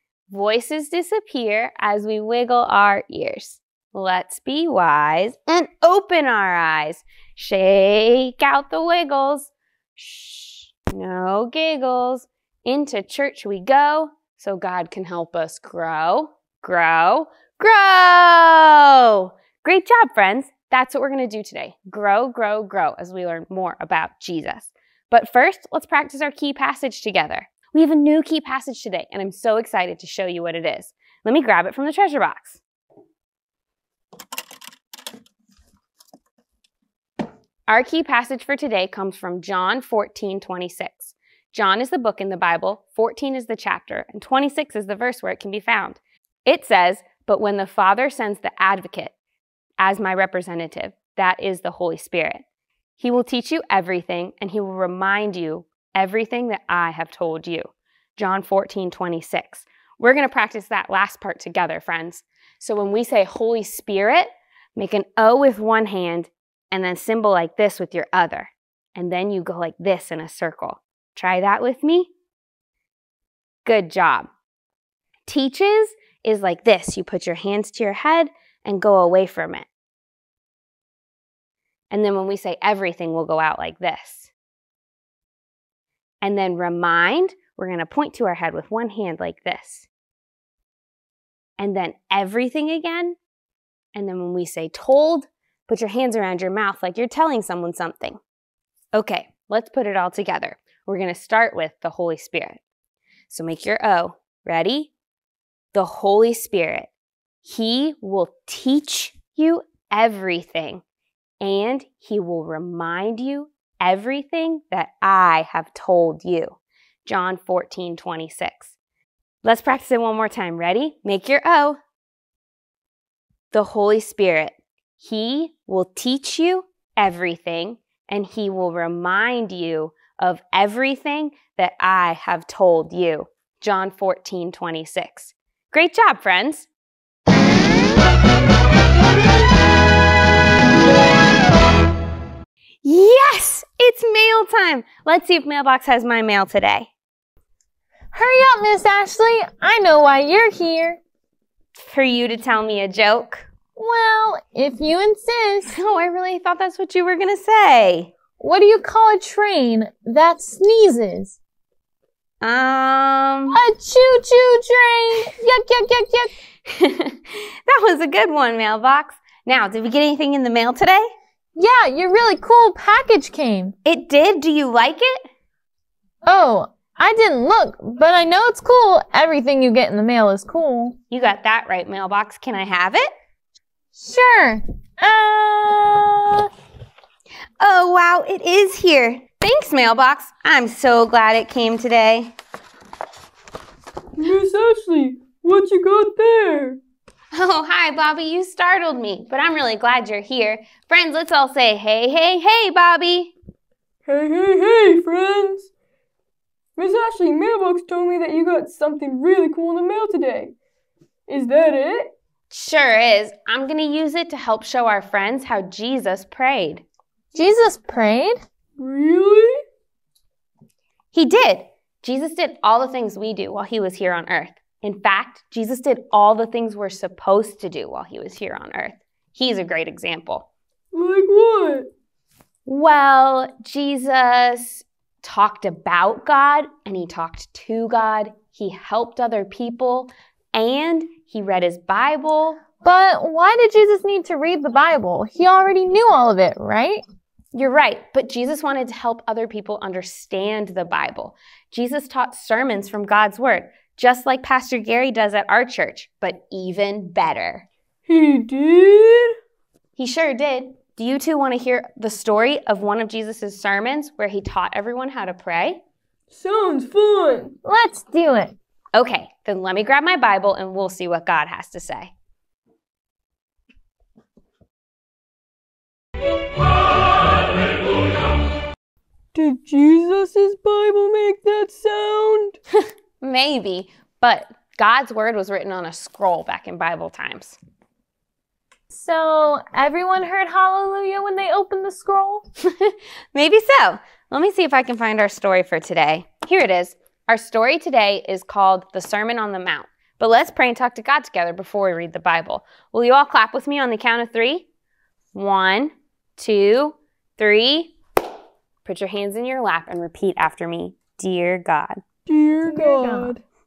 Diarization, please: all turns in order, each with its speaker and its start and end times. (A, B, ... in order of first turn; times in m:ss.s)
0:00.3-0:32.6 A
0:37.7-0:49.1 A
0:49.8-0:52.4 A
0:53.0-1:12.1 A
1:13.6-1:14.3 A
1:15.3-1:19.7 A
1:21.9-1:24.3 A
1:26.2-1:29.9 A
1:31.6-1:33.2 A
1:34.0-1:38.2 A
1:38.9-1:42.6 A
1:43.3-1:44.9 A
1:45.7-1:46.9 A
1:47.4-1:50.8 A
1:51.4-1:58.8 A
1:59.4-2:01.8 A
2:03.5-2:16.7 A
2:22.8-2:26.9 A
2:28.1-2:31.0 B
2:31.8-2:33.5 A
2:33.8-2:35.8 B
2:35.7-2:38.1 A
2:38.4-2:41.4 B
2:42.4-2:43.6 A
2:43.5-2:46.3 B
2:46.7-2:51.1 A
2:51.6-2:53.7 B
2:53.8-2:55.2 A
2:56.2-3:01.0 B
3:01.1-3:03.1 A
3:04.0-3:06.4 B
3:07.6-3:12.4 A
3:14.2-3:16.8 C
3:17.3-3:23.4 A
3:24.1-3:25.7 C
3:26.8-3:30.6 C
3:31.3-3:32.2 C
3:32.5-3:36.9 A
3:37.3-3:38.4 B
3:38.8-3:39.6 C
3:41.1-3:50.5 A
3:50.9-3:51.9 C
3:52.7-4:02.6 A
4:02.8-4:07.0 B
4:07.5-4:17.7 A
4:18.1-4:19.3 C
4:20.0-4:25.8 A
4:26.3-4:27.6 C
4:27.6-4:28.6 B
4:29.0-4:32.1 A
4:39.4-4:42.6 C
4:42.8-4:47.6 A
4:48.9-4:52.4 B
4:52.8-5:04.7 A
5:05.3-5:08.0 A
5:08.8-5:12.0 A
5:12.3-5:13.4 C
5:12.6-5:13.3 B